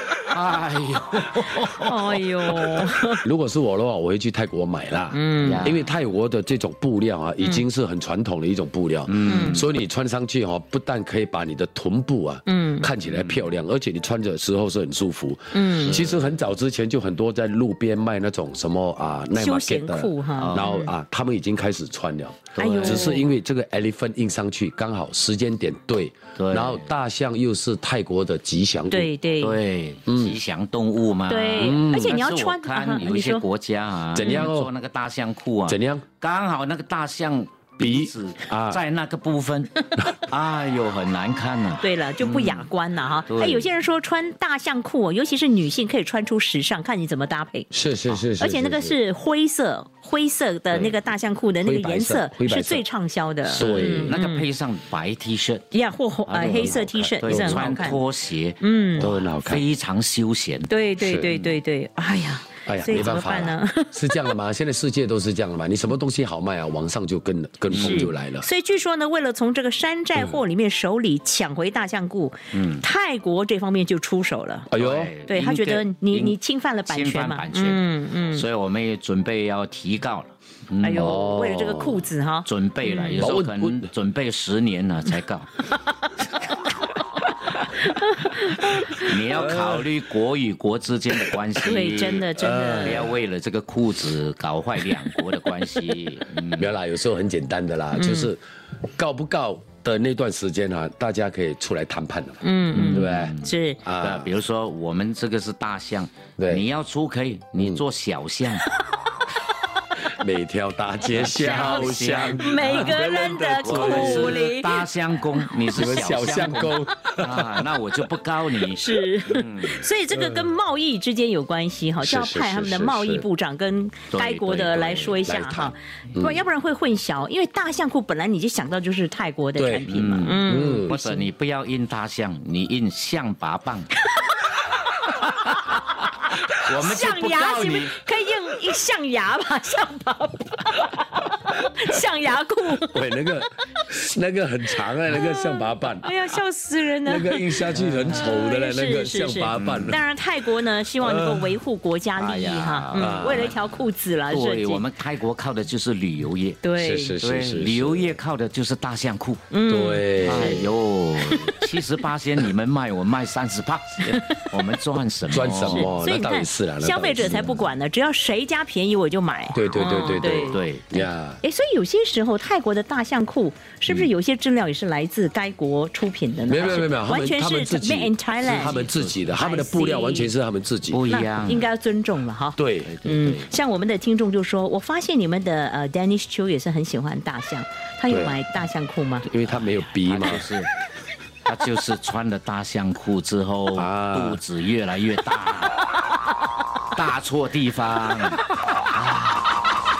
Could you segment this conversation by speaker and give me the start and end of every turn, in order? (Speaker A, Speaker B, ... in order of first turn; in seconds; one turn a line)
Speaker A: 0.2-2.9
Speaker B: 1.8-3.2
Speaker C: 3.2-29.1
Speaker B: 5.1-5.7
Speaker A: 5.4-5.9
Speaker A: 9.1-9.7
Speaker B: 9.2-9.6
Speaker B: 12.4-12.9
Speaker A: 13.0-13.5
Speaker B: 15.5-15.9
Speaker A: 15.8-16.3
Speaker B: 19.4-20.9
Speaker A: 20.4-20.7
Speaker A: 22.6-23.2
Speaker B: 22.6-23.2
Speaker A: 26.4-26.9
Speaker B: 28.9-29.6
Speaker A: 29.4-42.7
Speaker C: 30.1-30.4
Speaker B: 31.3-33.5
Speaker C: 31.6-32.1
Speaker C: 34.1-34.7
Speaker B: 34.1-34.5
Speaker C: 35.7-36.0
Speaker C: 37.8-38.8
Speaker B: 41.8-47.7
Speaker A: 43.3-43.7
Speaker C: 47.7-49.0
Speaker B: 48.4-54.4
Speaker C: 51.6-52.8
Speaker C: 53.5-54.2
Speaker A: 53.5-55.6
Speaker B: 55.7-58.0
Speaker C: 56.3-57.8
Speaker A: 57.2-60.7
Speaker B: 58.6-59.1
Speaker C: 59.0-59.6
Speaker B: 60.7-64.1
Speaker C: 61.0-61.5
Speaker C: 62.6-68.5
Speaker A: 67.7-68.1
Speaker B: 67.7-74.7
Speaker A: 72.5-72.8
Speaker C: 74.7-75.1
Speaker A: 74.7-81.3
Speaker B: 75.3-78.5
Speaker B: 80.8-83.3
Speaker C: 80.9-82.0
Speaker A: 82.5-85.5
Speaker C: 83.2-83.9
Speaker B: 87.9-89.1
Speaker A: 88.8-96.7
Speaker C: 89.5-89.9
Speaker B: 91.6-93.1
Speaker C: 92.4-93.2
Speaker C: 96.6-98.4
Speaker B: 97.9-98.3
Speaker C: 99.0-104.3
Speaker B: 102.4-103.8
Speaker A: 102.7-108.7
Speaker C: 106.4-106.6
Speaker C: 107.6-107.8
Speaker C: 110.1-114.5
Speaker A: 111.0-119.9
Speaker B: 111.4-114.8
Speaker C: 115.7-117.7
Speaker B: 118.7-131.2
Speaker C: 120.1-120.5
Speaker C: 122.0-123.3
Speaker A: 124.1-125.3
Speaker C: 125.2-126.4
Speaker C: 129.6-130.9
Speaker A: 129.9-133.9
Speaker B: 134.1-134.6
Speaker B: 135.4-136.1
Speaker A: 136.5-137.9
Speaker B: 136.7-143.1
Speaker C: 142.9-146.2
Speaker B: 145.1-154.9
Speaker C: 147.1-150.0
Speaker A: 147.7-148.3
Speaker A: 149.5-150.0
Speaker C: 150.9-151.6
Speaker A: 152.2-153.6
Speaker C: 152.9-153.5
Speaker A: 154.3-156.6
Speaker B: 156.6-157.2
Speaker C: 156.8-158.2
Speaker A: 157.2-159.5
Speaker B: 159.5-160.3
Speaker C: 159.7-160.7
Speaker A: 160.2-165.9
Speaker B: 161.3-161.7
Speaker B: 164.1-164.4
Speaker C: 165.3-167.6
Speaker B: 165.5-170.6
Speaker A: 167.2-167.6
Speaker C: 169.5-171.4
Speaker A: 170.5-171.1
Speaker B: 171.4-180.3
Speaker C: 176.5-181.0
Speaker A: 178.4-179.3
Speaker A: 180.9-181.7
Speaker B: 181.1-189.3
Speaker C: 182.6-182.9
Speaker A: 182.8-183.5
Speaker C: 188.1-188.4
Speaker C: 189.2-190.5
Speaker A: 189.4-190.7
Speaker A: 191.4-195.9
Speaker C: 193.7-194.4
Speaker A: 196.9-198.4
Speaker A: 198.9-199.2